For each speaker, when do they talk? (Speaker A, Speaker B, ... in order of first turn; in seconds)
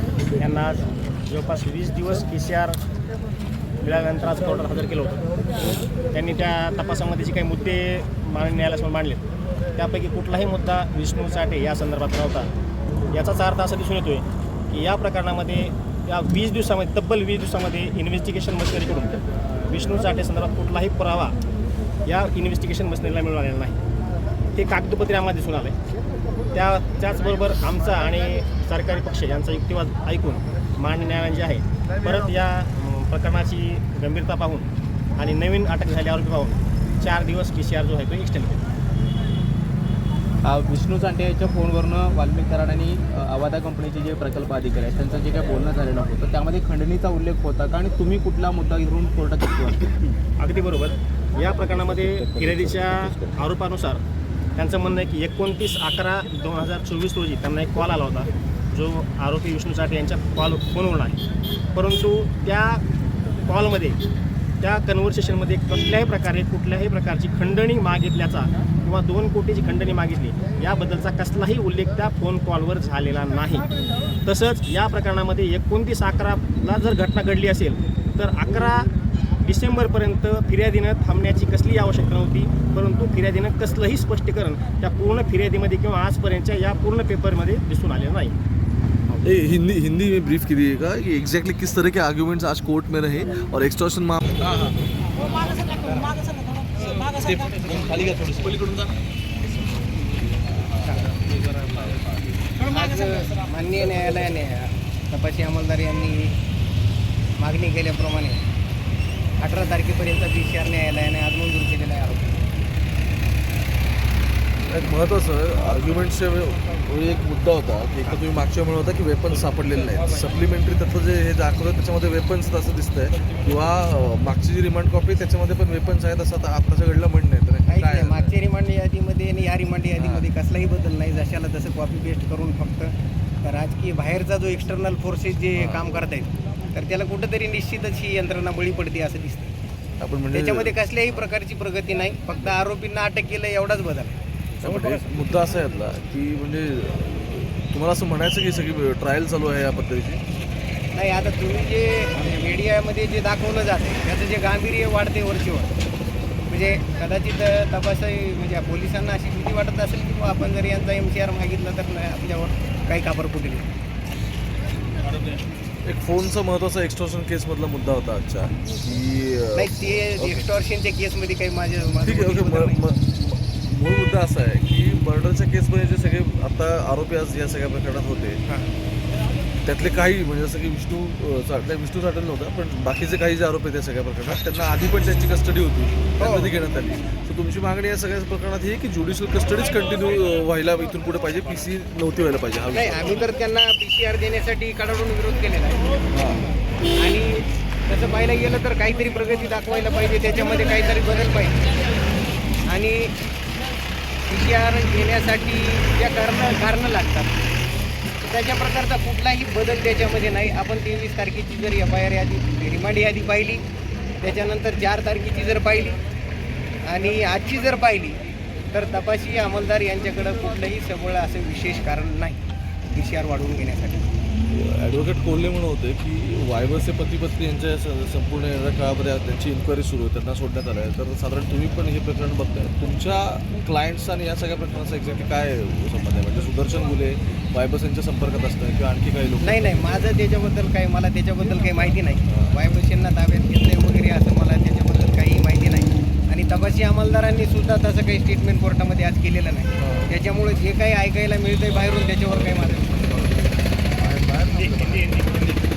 Speaker A: 0.4-2.8, 3.8-5.2, 6.1-9.2, 9.8-12.5, 13.1-21.4, 22.1-23.8, 24.6-25.8, 26.5-38.6, 50.4-54.0, 54.6-61.2, 61.7-62.8, 63.5-64.0, 64.6-73.7, 74.2-78.9, 79.4-88.4
Speaker B: 40.5-50.0, 52.2-52.8
Speaker C: 89.2-94.8, 96.8-98.9, 101.3-102.0, 114.7-128.3, 130.0-130.3, 140.0-140.8, 144.6-150.2, 165.9-170.5, 172.0-178.4, 179.6-193.2, 196.1-196.4, 224.5-240.0, 249.8-250.2, 254.0-255.2
Speaker D: 95.5-96.1, 102.6-106.4, 107.4-108.4, 109.4-112.5, 127.7-139.5, 140.3-145.0, 150.9-155.7, 156.5-163.7, 169.6-172.8, 186.2-186.5, 192.7-195.8, 196.9-201.7, 202.7-203.1, 204.3-207.3, 208.2-213.6, 214.2-216.0, 216.8-218.2, 218.7-224.1, 239.4-253.3, 254.9-255.4